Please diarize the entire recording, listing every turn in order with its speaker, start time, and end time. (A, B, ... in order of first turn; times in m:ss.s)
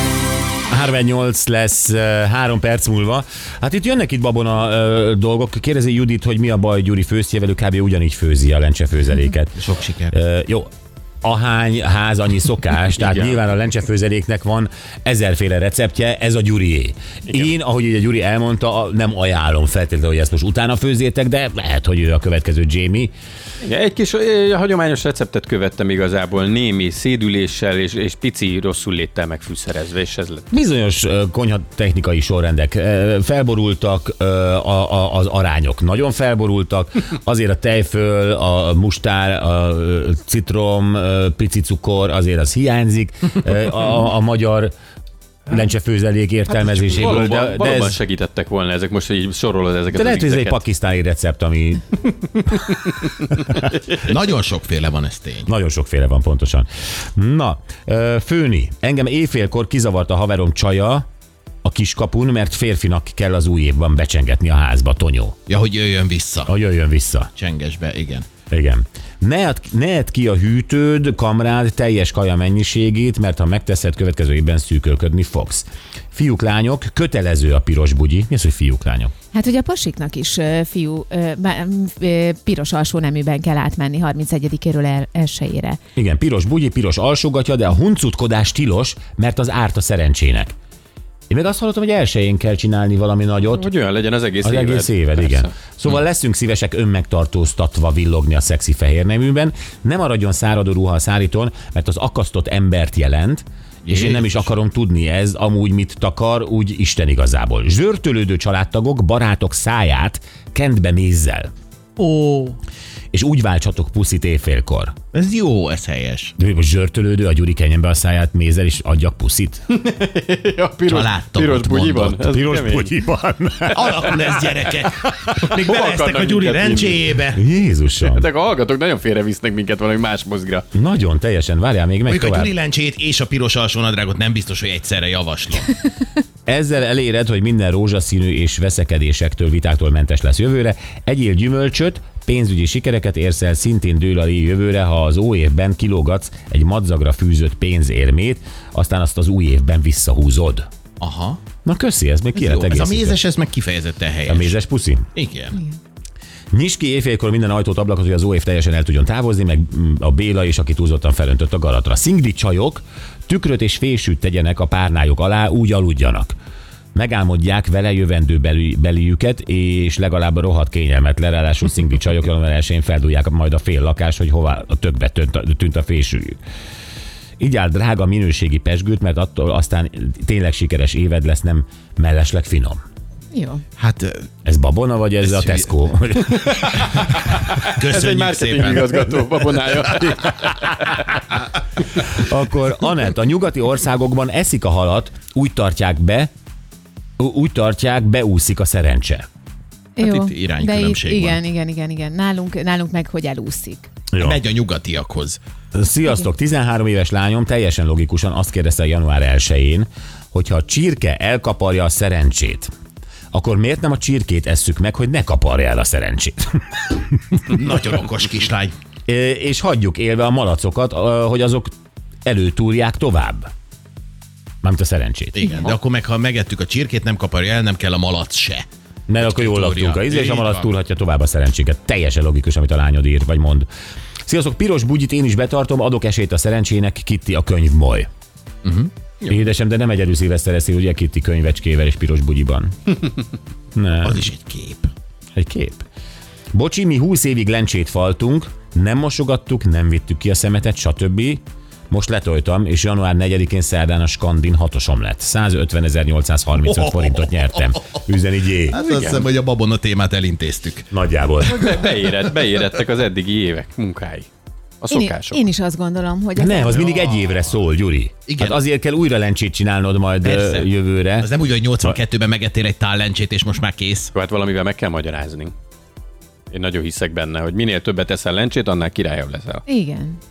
0:00.7-0:10.7 A
0:09.6-0:10.1 B
0:11.2-0:23.1 A
0:13.0-0:13.4 C
0:23.6-0:30.5 C
0:30.5-0:44.7 A
0:45.5-0:48.0 A
0:46.6-0:50.6 C
0:49.9-0:51.8 A
0:52.7-0:53.0 C
0:54.0-0:55.5 B
0:55.4-1:01.0 A
1:01.6-1:05.3 A
1:05.5-1:06.5 B
1:06.4-1:07.3 A
1:07.3-1:08.3 B
1:08.5-1:19.1 A
1:19.3-1:25.8 D
1:26.0-1:30.5 A
1:31.3-1:33.7 A
1:33.5-1:35.5 C
1:34.4-1:51.5 A
1:43.8-1:44.5 B
1:52.0-1:52.6 B
1:53.1-1:55.0 A
1:55.1-1:56.3 B
1:56.4-1:59.6 A
1:59.7-2:02.9 C
2:00.9-2:02.3 B
2:02.3-2:04.6 A
2:03.7-2:07.4 B
2:05.5-2:07.0 C
2:07.3-2:08.3 A
2:08.0-2:10.6 C
2:10.7-2:12.5 A
2:12.1-2:15.8 B
2:16.4-2:30.7 A
2:31.0-2:31.4 B
2:31.6-2:33.2 A
2:32.4-2:34.6 B
2:34.3-2:35.1 A
2:35.1-2:35.6 B
2:36.5-2:46.4 A
2:46.9-2:56.4 A
2:57.4-3:02.8 A
3:03.3-3:03.6 D
3:03.8-3:04.3 B
3:04.4-3:06.8 A
3:05.2-3:05.6 B
3:06.4-3:11.1 C
3:06.9-3:07.1 B
3:07.8-3:10.2 B
3:12.0-3:16.3 A
3:17.2-3:19.2 A
3:20.0-3:23.9 D
3:20.0-3:21.4 B
3:24.1-3:24.4 A
3:24.2-3:25.4 B
3:25.7-3:32.7 A
3:33.3-3:37.0 A
3:37.5-3:38.7 B
3:39.1-3:41.7 A
3:42.2-3:43.5 A
3:44.6-3:45.7 A
3:45.4-3:48.6 B
3:49.1-3:53.7 A
3:49.2-3:50.7 B
3:54.3-3:58.1 A
3:58.6-3:59.4 B
3:59.3-4:02.7 A
4:03.8-4:04.2 A
4:04.0-4:04.9 B
4:05.4-4:05.9 A
4:06.5-4:18.8 A
4:16.7-4:17.2 B
4:18.7-4:20.9 B
4:18.7-4:19.3 C
4:20.9-4:21.8 A
4:21.5-4:24.3 C
4:24.8-4:25.4 C
4:24.9-4:26.9 D
4:26.4-4:31.3 A
4:26.7-4:27.2 B
4:28.3-4:28.6 B
4:30.2-4:34.1 B
4:34.1-4:35.5 C
4:36.5-4:39.6 C
4:39.7-4:40.2 D